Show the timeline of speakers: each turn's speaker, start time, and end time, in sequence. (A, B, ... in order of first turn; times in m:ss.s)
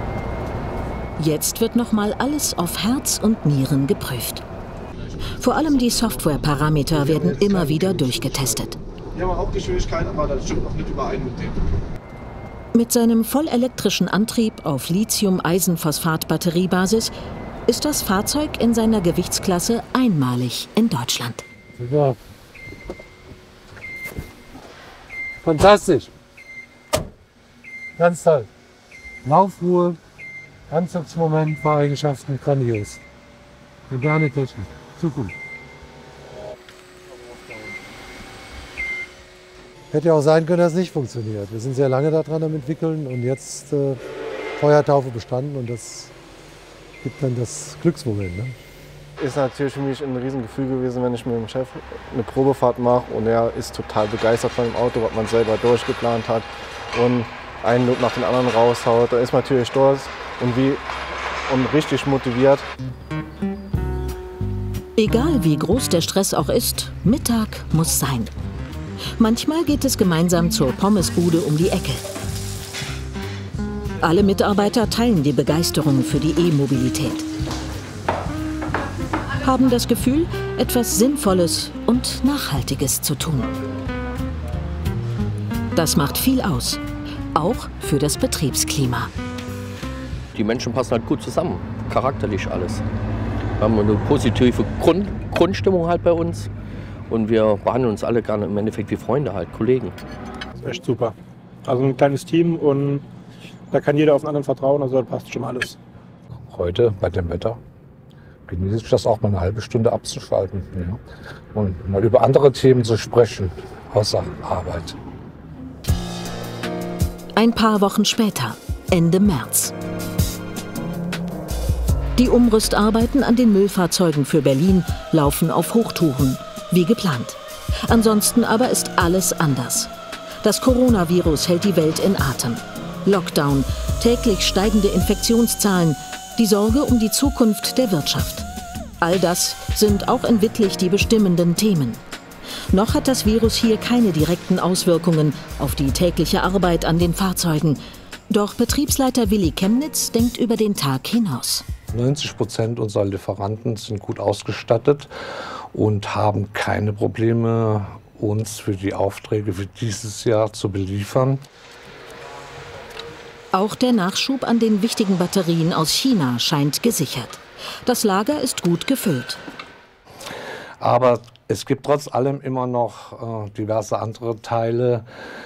0:01.2-0:04.4 A
0:05.4-0:08.8 A
0:06.9-0:08.7 B
0:09.1-0:11.7 C
0:12.7-0:17.1 A
0:17.7-0:21.4 A
0:21.8-0:22.2 B
0:25.4-0:26.1 B
0:28.0-0:28.5 B
0:29.2-0:30.0 B
0:30.7-0:33.0 B
0:33.9-0:35.3 B
0:39.9-0:44.0 B
0:44.6-0:46.1 B
0:47.0-0:48.6 B
0:49.2-1:00.8 C
1:01.5-1:02.7 C
1:05.0-1:08.3 A
1:09.2-1:12.0 A
1:14.0-1:17.3 A
1:19.4-1:23.5 A
1:25.8-1:26.8 A
1:27.3-1:29.1 A
1:30.3-1:32.8 D
1:33.6-1:36.5 D
1:37.1-1:40.0 D
1:40.6-1:43.0 E
1:43.7-1:45.8 E
1:46.5-1:47.6 F
1:48.5-1:51.0 F
1:51.5-1:55.0 F
1:57.4-1:59.7 A
2:02.2-2:09.9 A
2:10.4-2:18.5 A
2:19.0-2:22.0 A
2:22.7-2:31.6 A
2:31.9-2:35.1 F
2:35.7-2:41.4 F
2:43.5-2:49.4 A
2:50.8-2:55.0 F